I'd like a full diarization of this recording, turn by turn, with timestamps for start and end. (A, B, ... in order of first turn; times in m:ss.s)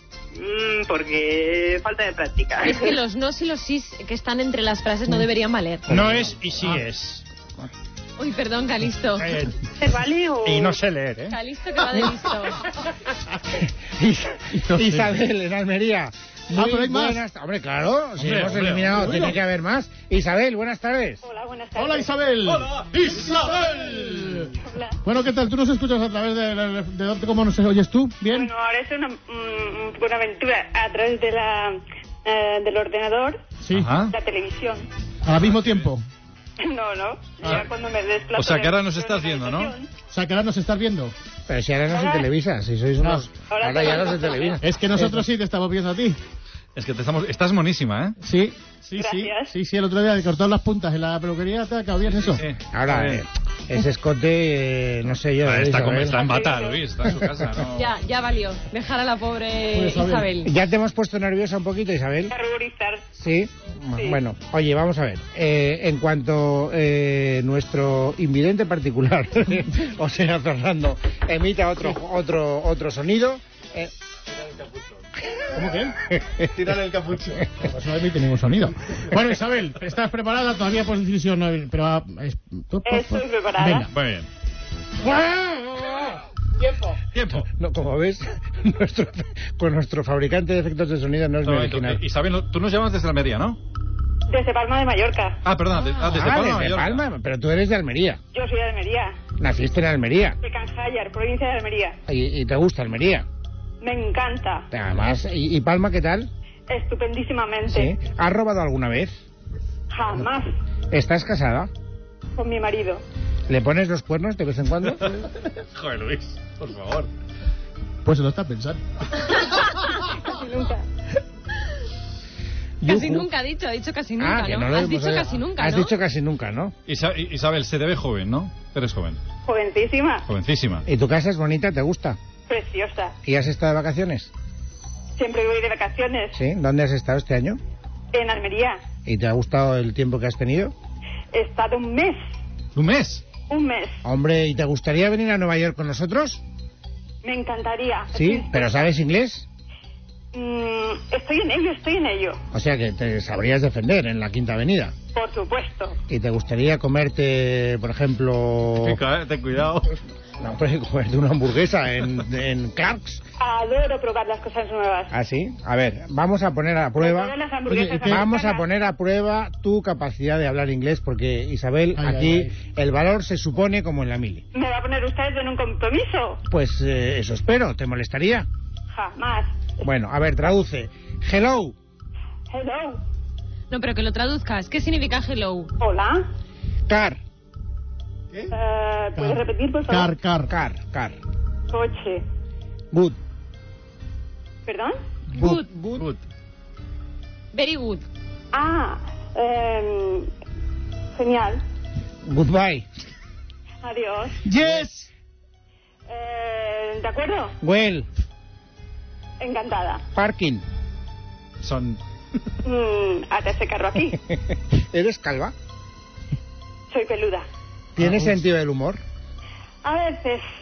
0:00.3-0:02.9 A
0:02.6-0:05.8 B
0:05.9-0:07.2 C
0:05.9-0:06.3 D
0:08.2-0:09.3 B
0:09.2-0:09.5 C
0:09.8-0:10.7 E
0:10.4-0:11.4 C
0:11.3-0:12.6 B
0:13.6-0:21.2 D
0:14.5-0:15.1 F
0:16.6-0:17.2 F
0:18.2-0:19.2 G
0:18.9-0:19.4 F
0:21.2-0:22.1 E
0:21.7-0:28.5 F
0:22.7-0:23.4 G
0:24.6-0:25.0 E
0:28.3-0:33.4 E
0:33.6-0:34.0 F
0:33.7-0:34.1 G
0:34.0-0:34.8 E
0:35.2-0:36.0 F
0:35.3-0:35.9 G
0:36.6-0:39.9 E
0:38.4-0:39.7 G
0:40.1-0:41.1 F
0:41.5-0:45.2 D
0:41.9-0:42.2 E
0:43.0-0:43.3 F
0:43.5-0:44.6 E
0:44.6-0:46.2 F
0:46.8-0:48.2 G
0:48.2-0:52.4 F
0:49.0-0:49.5 E
0:52.1-0:53.2 G
0:52.7-0:56.5 D
0:55.4-0:57.9 G
0:56.2-0:56.8 E
0:57.7-1:00.5 B
0:59.7-1:00.4 F
1:00.4-1:02.3 D
1:02.3-1:03.0 E
1:03.1-1:13.9 D
1:15.5-1:15.9 F
1:15.5-1:16.9 D
1:16.6-1:17.5 G
1:17.6-1:23.9 F
1:22.8-1:23.9 E
1:23.9-1:24.3 G
1:25.0-1:26.1 D
1:26.6-1:27.0 F
1:27.1-1:27.5 G
1:27.4-1:32.0 D
1:31.4-1:33.6 G
1:34.3-1:35.4 E
1:35.4-1:37.0 G
1:36.0-1:38.2 D
1:38.3-1:39.1 E
1:39.4-1:40.4 D
1:40.4-1:42.0 E
1:42.1-1:43.2 D
1:43.8-1:44.7 E
1:44.7-1:46.3 D
1:46.7-1:47.9 E
1:47.7-1:49.2 D
1:49.9-1:50.5 E
1:50.9-1:51.7 D
1:52.4-1:53.0 E
1:53.5-1:55.2 D
1:55.6-1:57.1 G
1:58.0-1:58.8 F
2:00.0-2:00.8 E
2:02.8-2:03.3 D
2:02.8-2:05.9 B
2:04.2-2:06.7 D
2:06.9-2:09.2 G
2:09.4-2:10.2 E
2:10.2-2:10.8 G
2:10.9-2:12.2 D
2:12.5-2:13.1 E
2:13.2-2:14.3 D
2:15.2-2:16.4 E
2:16.3-2:17.6 D
2:18.1-2:18.8 E
2:19.0-2:20.7 D
2:21.3-2:22.2 E
2:22.8-2:23.2 G
2:23.5-2:24.0 E
2:24.0-2:26.4 D
2:27.2-2:28.7 E
2:28.1-2:29.5 D
2:30.3-2:32.4 E
2:32.5-2:34.9 D
2:35.1-2:36.0 E
2:36.1-2:39.0 D
2:38.8-2:39.9 G
2:40.4-2:43.2 D
2:43.4-2:45.1 E
2:45.1-2:47.3 D
2:47.0-2:48.7 E
2:47.7-2:48.2 F
2:48.0-2:54.4 D
2:52.0-2:52.5 F
2:54.5-2:56.4 E
2:56.5-2:58.5 D
2:58.9-2:59.5 E
2:59.8-3:01.7 D
3:02.5-3:03.0 E
3:03.7-3:05.7 B
3:05.8-3:06.2 E
3:06.9-3:07.2 D
3:08.5-3:10.1 E
3:09.2-3:10.5 F
3:10.5-3:11.2 D
3:11.7-3:12.2 E
3:12.9-3:13.2 D
3:14.6-3:15.0 E
3:15.4-3:15.7 B
3:15.4-3:16.0 D
3:17.5-3:18.0 B
3:18.5-3:20.3 E
3:21.2-3:21.6 E
3:22.2-3:22.8 D
3:23.8-3:24.4 E
3:24.4-3:25.1 F
3:26.1-3:27.5 E
3:27.6-3:28.1 D
3:29.4-3:30.0 E
3:30.1-3:30.6 D
3:31.6-3:32.0 G
3:32.6-3:34.2 E
3:34.5-3:35.5 D
3:36.9-3:37.4 E
3:38.0-3:39.0 D
3:38.0-3:38.3 G
3:39.8-3:40.4 E